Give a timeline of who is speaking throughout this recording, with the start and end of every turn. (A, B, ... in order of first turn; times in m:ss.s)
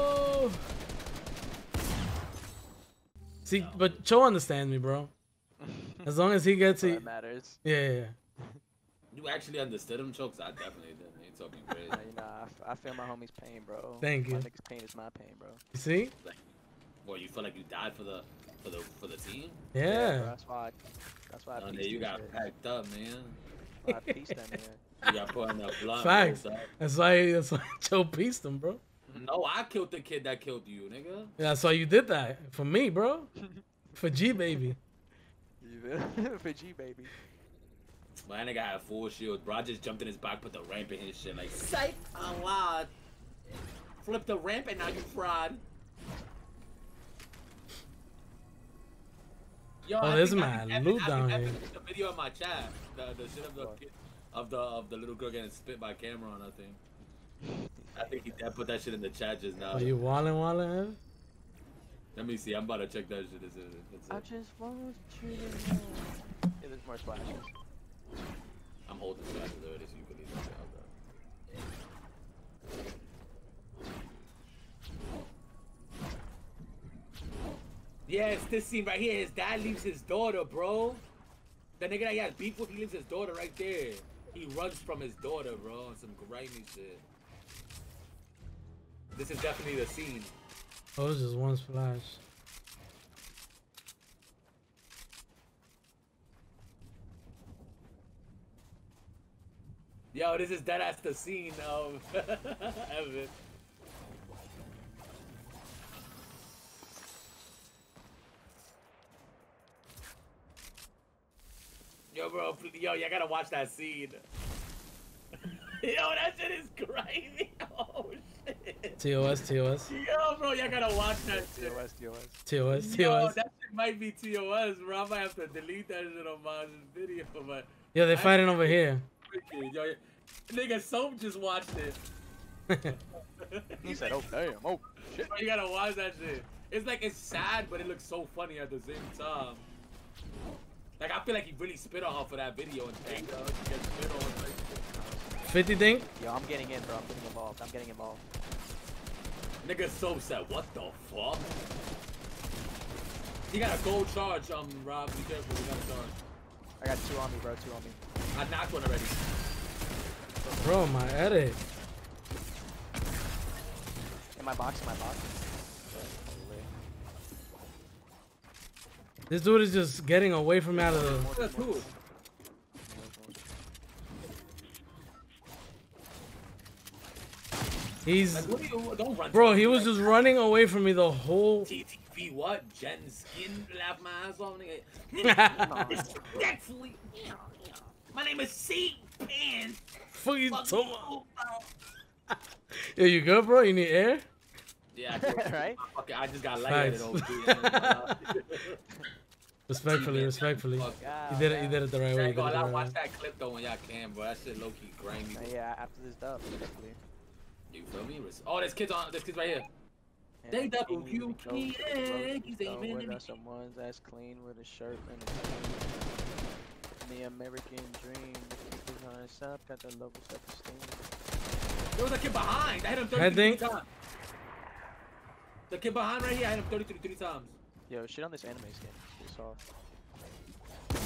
0:00.2-0:00.6 A
0:03.5-0:05.1 A
0:03.5-0:04.0 B
0:05.6-0:06.1 C
0:06.1-0:07.1 A
0:06.7-0:07.6 C
0:07.6-0:08.2 A
0:09.1-0:12.0 B
0:11.9-0:15.6 C
0:14.0-0:14.5 A
0:15.8-0:16.1 A
0:16.2-0:16.5 B
0:17.0-0:19.6 B
0:19.7-0:20.3 A
0:19.8-0:22.5 C
0:21.6-0:23.4 B
0:23.8-0:24.8 C
0:25.0-0:26.7 B
0:25.8-0:28.8 A
0:29.1-0:31.3 B
0:31.4-0:33.3 A
0:34.0-0:34.8 A
0:35.6-0:37.1 C
0:38.2-0:42.9 B
0:44.0-0:45.6 B
0:49.8-0:56.8 B
0:50.0-0:51.6 A
0:57.6-0:58.5 C
0:58.0-0:59.9 B
0:59.7-1:01.0 A
1:02.2-1:04.2 B
1:04.1-1:07.5 C
1:08.9-1:10.9 B
1:18.1-1:21.0 B
1:21.8-1:27.0 B
1:29.2-1:30.3 B
1:31.0-1:32.2 A
1:40.1-1:43.3 B
1:52.1-1:54.2 B
1:55.4-1:59.0 B
1:59.0-1:59.9 A
1:59.9-2:01.8 B
2:01.0-2:02.4 C
2:02.5-2:03.4 A
2:02.7-2:12.0 B
2:07.9-2:09.0 A
2:12.7-2:13.0 A
2:12.9-2:14.2 B
2:13.8-2:15.0 C
2:15.0-2:19.7 B
2:21.0-2:24.8 B
2:23.0-2:23.5 C
2:24.9-2:25.6 C
2:25.4-2:26.1 A
2:26.1-2:28.2 C
2:29.6-2:31.5 B
2:33.5-2:36.2 B
2:36.8-2:38.0 C
2:38.3-2:39.2 B
2:40.4-2:41.4 C
2:40.6-2:41.6 A
2:44.4-2:45.4 C
2:45.9-2:46.7 C
2:49.3-2:51.3 A
2:50.7-2:52.0 C
2:51.4-2:51.9 B
2:52.8-2:53.4 C
2:58.1-2:58.6 A
2:58.3-3:00.1 B
2:59.3-3:01.7 A
3:01.6-3:09.8 B
3:05.2-3:06.0 A
3:05.6-3:06.5 C
3:10.1-3:11.1 A
3:10.5-3:11.7 B
3:13.0-3:14.3 A
3:14.9-3:18.8 B
3:15.1-3:15.8 C
3:16.6-3:18.1 A
3:19.7-3:23.0 A
3:19.9-3:21.0 B
3:20.9-3:21.8 C
3:22.2-3:25.5 B
3:25.3-3:27.0 C
3:27.7-3:29.7 B
3:30.4-3:36.4 C
3:30.5-3:33.2 B
3:37.0-3:41.1 C
3:42.0-3:43.9 B
3:43.1-3:43.6 A
3:45.7-3:47.6 B
3:47.9-3:49.6 C